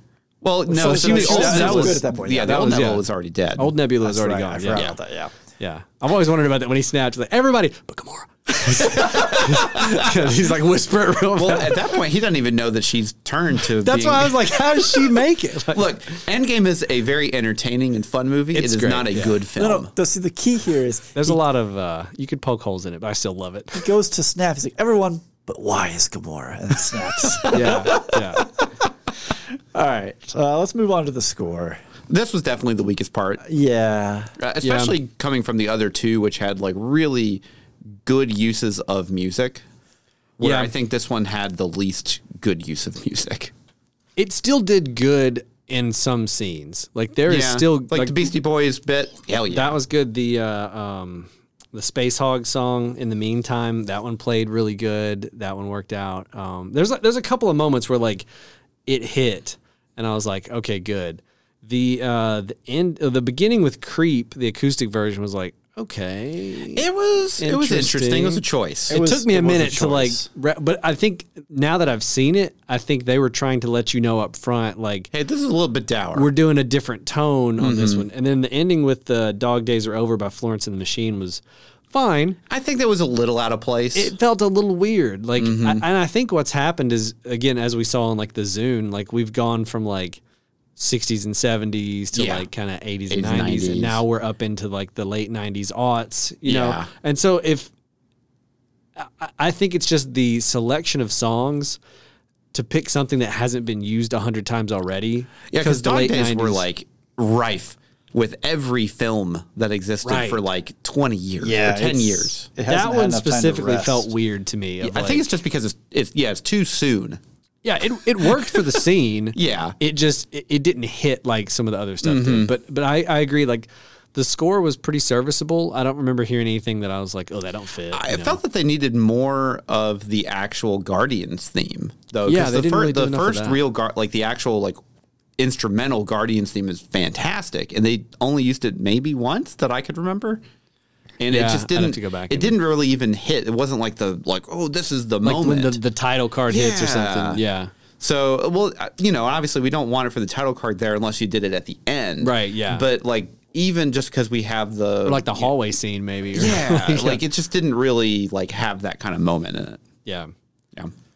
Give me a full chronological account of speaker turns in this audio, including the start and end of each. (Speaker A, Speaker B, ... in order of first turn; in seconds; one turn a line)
Speaker A: 0.4-3.7
Speaker B: 0.7-2.8
Speaker C: 0.8-3.1
Speaker C: 3.6-4.9
Speaker B: 4.0-5.3
Speaker C: 5.6-11.9
Speaker A: 8.7-10.2
Speaker A: 11.3-14.8
Speaker C: 13.6-15.9
Speaker A: 15.7-19.9
Speaker C: 18.5-19.4
Speaker B: 19.6-21.4
Speaker C: 21.1-23.9
Speaker B: 23.7-31.8
Speaker C: 27.5-28.4
Speaker A: 32.1-33.4
Speaker B: 33.4-34.3
Speaker A: 34.4-37.4
Speaker C: 34.6-35.0
Speaker A: 38.0-39.6
Speaker A: 40.4-43.5
Speaker C: 40.4-40.7
Speaker C: 44.2-48.3
Speaker A: 47.3-49.8
Speaker C: 49.5-58.2
Speaker C: 58.9-66.8
Speaker A: 66.7-69.0
Speaker C: 67.4-75.1
Speaker B: 68.9-70.3
Speaker A: 75.1-76.3
Speaker C: 76.2-82.4
Speaker A: 77.6-78.1
Speaker A: 82.5-84.1
Speaker C: 83.9-90.2
Speaker A: 85.4-85.8
Speaker C: 90.8-97.7
Speaker A: 92.1-92.5
Speaker A: 93.1-94.0
Speaker A: 96.5-96.9
Speaker C: 99.0-101.8
Speaker C: 102.5-106.6
Speaker A: 105.5-112.5
Speaker C: 110.0-110.4
Speaker B: 111.4-114.1
Speaker C: 112.7-115.3
Speaker A: 114.8-117.2
Speaker C: 117.6-128.4
Speaker A: 118.2-118.7
Speaker A: 119.3-119.8
Speaker A: 122.0-122.5
Speaker A: 127.9-134.8
Speaker C: 132.2-133.6
Speaker A: 135.4-140.4
Speaker A: 141.2-145.8
Speaker C: 141.3-142.6
Speaker C: 145.2-147.7
Speaker A: 146.5-147.4
Speaker A: 148.0-155.5
Speaker C: 152.2-152.9
Speaker C: 155.1-157.2
Speaker A: 156.3-159.8
Speaker C: 160.1-160.3